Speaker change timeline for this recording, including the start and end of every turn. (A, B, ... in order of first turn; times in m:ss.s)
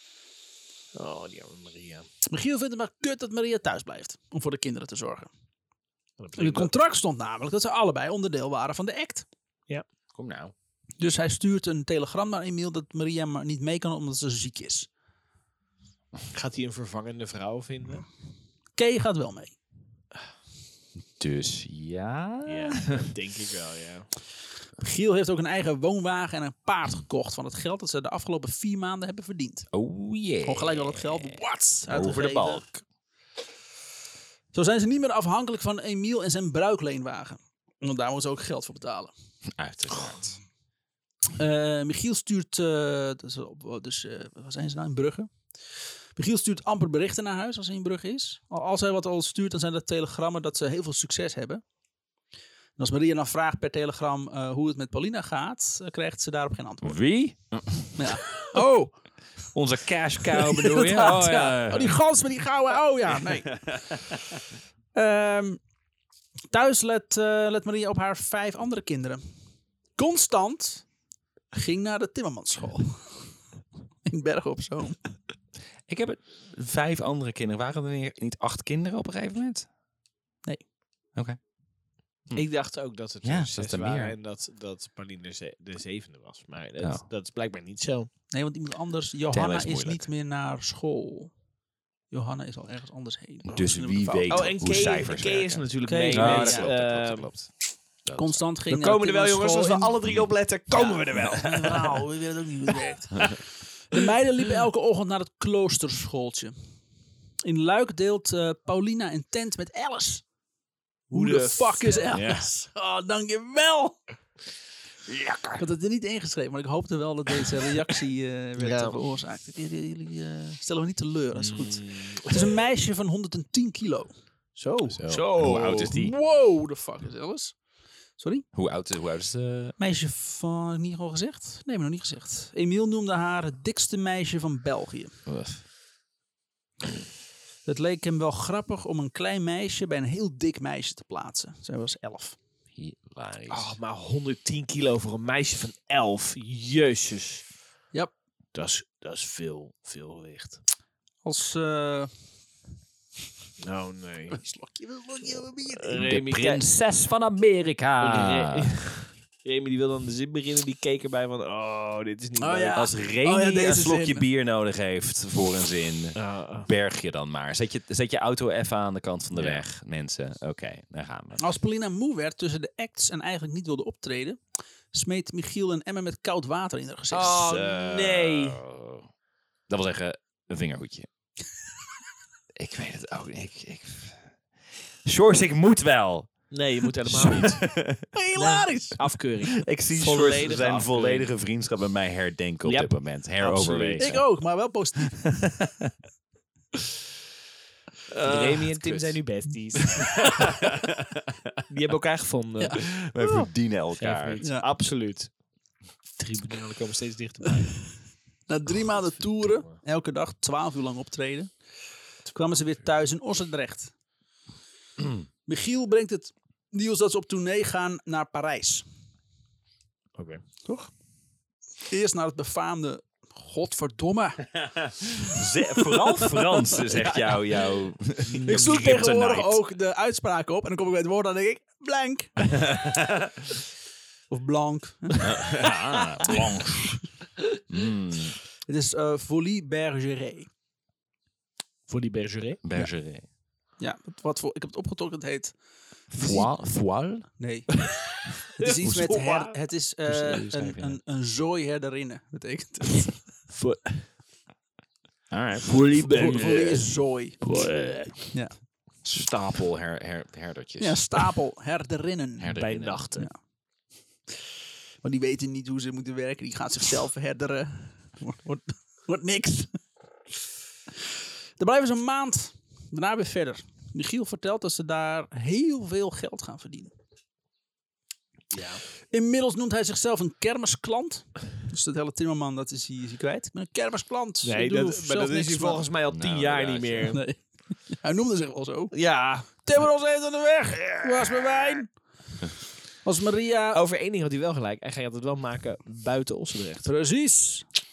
0:01.0-0:02.1 A
0:02.3-0:05.3 B
0:06.2-0:06.7 A
0:06.4-0:09.3 B
0:10.1-0:10.5 C
0:11.0-0:14.9 B
0:16.3-0:18.1 A
0:18.8-0:19.6 B
0:21.2-0:23.1 C
0:22.5-0:24.1 A
0:24.8-0:29.7 B
0:29.7-0:32.7 C
0:30.4-0:32.8 B
0:34.5-0:39.1 B
0:39.6-0:40.4 C
0:41.4-0:45.3 B
0:46.2-0:51.6 B
0:52.8-0:57.0 B
0:56.8-0:58.1 C
0:58.0-0:59.0 B
0:59.5-1:02.0 C
1:00.4-1:03.6 B
1:03.7-1:04.0 C
1:04.9-1:05.6 B
1:06.5-1:09.2 B
1:10.0-1:10.9 B
1:11.5-1:13.2 B
1:14.1-1:15.0 B
1:15.9-1:19.7 C
1:22.3-1:28.1 A
1:23.2-1:24.2 C
1:26.8-1:27.0 C
1:28.3-1:31.3 B
1:29.3-1:30.1 C
1:32.1-1:34.5 B
1:33.5-1:37.5 C
1:34.3-1:37.3 A
1:35.8-1:36.7 B
1:38.0-1:38.4 C
1:38.2-1:40.0 B
1:38.7-1:42.0 A
1:40.7-1:46.5 B
1:47.4-1:50.2 B
1:51.1-1:52.4 A
1:51.1-1:54.0 B
1:55.1-1:55.6 C
1:55.6-2:04.1 B
1:58.6-1:59.0 A
2:01.4-2:02.5 A
2:04.6-2:06.0 A
2:04.9-2:06.2 C
2:05.5-2:07.6 B
2:08.2-2:08.5 B
2:08.5-2:09.8 C
2:09.8-2:15.2 B
2:15.3-2:15.6 C
2:17.7-2:22.4 B
2:22.8-2:23.8 C
2:23.5-2:27.4 A
2:28.5-2:30.6 A
2:31.2-2:32.1 B
2:33.6-2:34.4 A
2:34.3-2:36.0 B
2:35.7-2:36.7 A
2:35.9-2:38.8 C
2:38.0-2:42.8 A
2:42.4-2:44.2 B
2:42.7-2:51.4 C
2:46.2-2:46.7 A
2:49.3-2:49.6 A
2:51.4-2:54.4 B
2:54.9-2:57.4 B
2:57.1-2:58.6 A
2:57.4-2:59.1 C
2:59.7-3:01.1 C
3:02.6-3:04.2 C
3:05.0-3:08.1 C
3:06.5-3:07.7 A
3:08.1-3:09.0 B
3:08.4-3:11.3 A
3:09.4-3:14.2 C
3:12.6-3:14.2 A
3:14.0-3:15.4 B
3:15.2-3:15.9 C
3:18.2-3:20.6 A
3:18.2-3:19.2 C
3:19.9-3:21.5 C
3:21.7-3:23.0 A
3:22.6-3:23.5 B
3:22.8-3:24.4 C
3:24.0-3:25.3 A
3:26.2-3:27.8 A
3:28.5-3:31.5 B
3:29.3-3:29.7 A
3:32.3-3:33.9 B
3:35.0-3:35.2 C
3:35.5-3:38.8 B
3:40.2-3:40.4 A
3:41.9-3:44.5 B
3:44.6-3:49.6 C
3:45.2-3:47.3 B
3:48.3-3:48.8 A
3:48.5-3:52.7 B
3:52.6-3:53.3 C
3:54.3-3:56.6 B
3:55.2-3:57.0 C
3:57.7-3:58.4 C
3:58.7-4:00.5 B
4:01.9-4:02.6 A
4:02.6-4:03.3 C
4:03.8-4:05.6 B
4:06.1-4:07.3 C
4:06.2-4:06.5 B
4:07.4-4:07.7 B
4:08.6-4:13.3 B
4:08.6-4:09.5 A
4:08.8-4:09.2 C
4:10.1-4:11.0 C
4:13.5-4:14.1 A
4:15.3-4:16.6 C
4:15.7-4:16.8 A
4:16.1-4:17.4 B
4:17.4-4:18.2 A
4:19.0-4:21.0 C
4:20.8-4:22.6 B
4:22.4-4:23.1 C
4:22.5-4:23.3 A
4:25.0-4:29.8 B
4:31.6-4:36.9 B
4:38.5-4:38.8 A
4:39.1-4:45.8 B
4:44.4-4:47.2 A
4:46.1-4:47.2 C
4:47.1-4:48.9 B
4:48.9-4:49.7 A
4:49.5-4:51.9 B
4:50.9-4:51.4 A
4:53.0-4:53.8 B
4:53.7-4:56.9 A
4:56.8-4:57.7 B